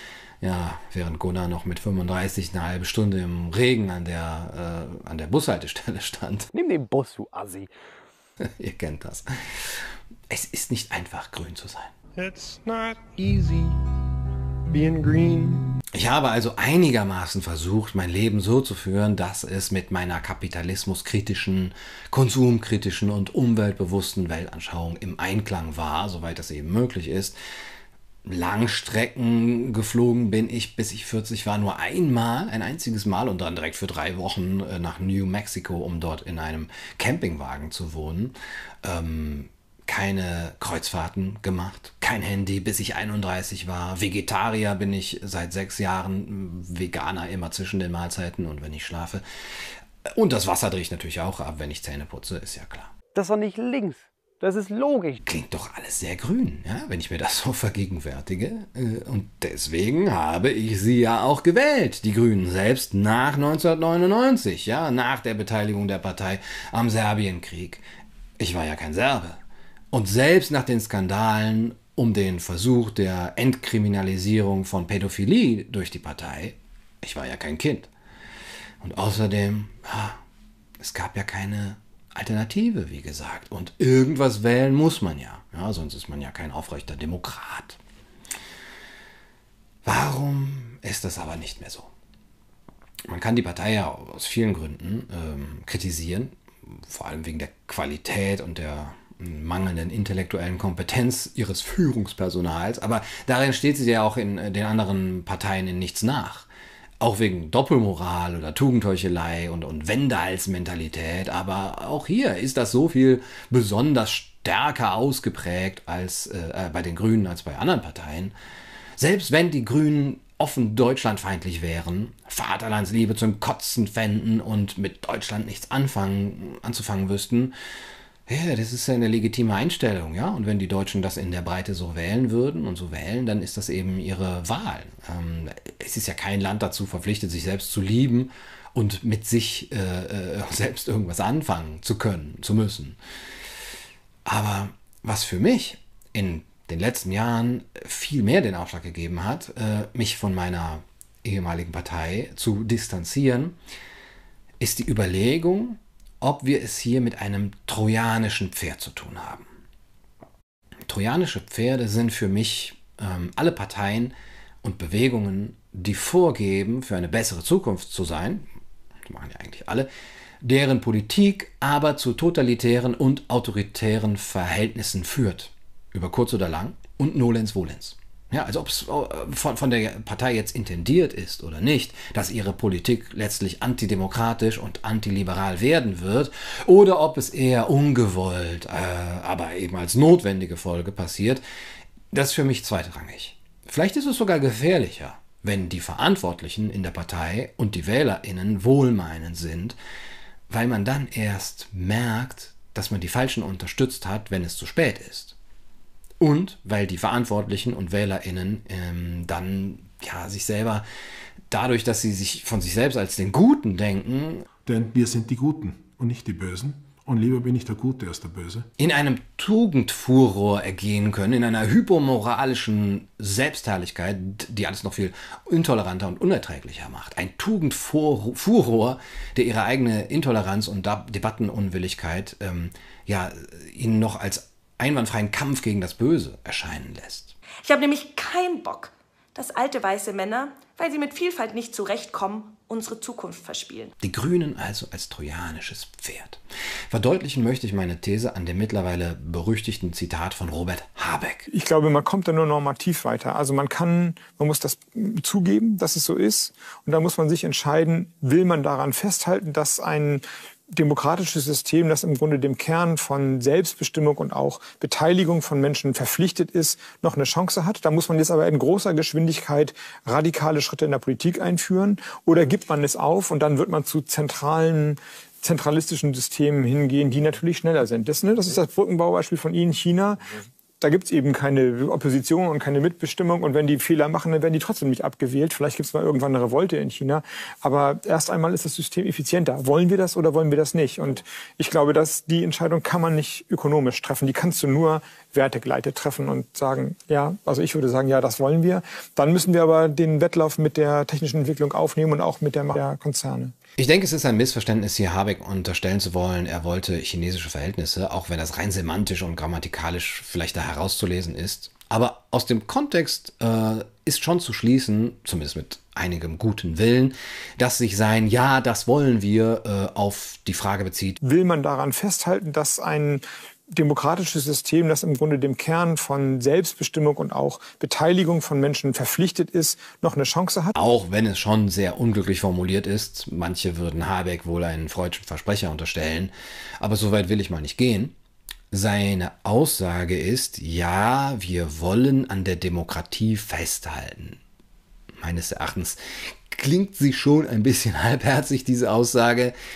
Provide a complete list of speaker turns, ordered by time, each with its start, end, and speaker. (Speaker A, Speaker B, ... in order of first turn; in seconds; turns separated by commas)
Speaker A: 0.4-6.5, Speaker B: 6.5-7.7, Speaker A: 8.4-11.9, Speaker C: 12.2-13.8, Speaker C: 14.7-15.8, Speaker A: 15.9-27.4, Speaker A: 28.2-49.2, Speaker A: 50.1-52.9, Speaker B: 53.1-55.2, Speaker A: 55.2-67.8, Speaker A: 68.4-69.4, Speaker A: 69.9-77.9, Speaker A: 78.8-80.2, Speaker A: 80.8-87.8, Speaker A: 89.8-91.9, Speaker A: 93.1-106.5, Speaker A: 107.0-118.3, Speaker A: 119.0-127.5, Speaker A: 128.3-143.0, Speaker A: 144.3-153.6, Speaker A: 154.6-159.4, Speaker A: 160.9-168.5, Speaker A: 169.1-169.9, Speaker A: 170.4-191.4, Speaker A: 192.1-199.8, Speaker A: 200.5-205.3, Speaker A: 206.2-210.8, Speaker A: 211.5-214.4, Speaker D: 214.7-218.7, Speaker A: 218.8-237.3, Speaker E: 237.6-243.9, Speaker A: 244.0-246.4, Speaker A: 246.9-251.5, Speaker F: 251.5-280.2, Speaker F: 280.8-303.5, Speaker A: 303.8-321.2, Speaker F: 321.2-330.8, Speaker A: 330.8-338.1, Speaker A: 338.7-344.4, Speaker A: 345.2-346.0, Speaker A: 346.5-349.6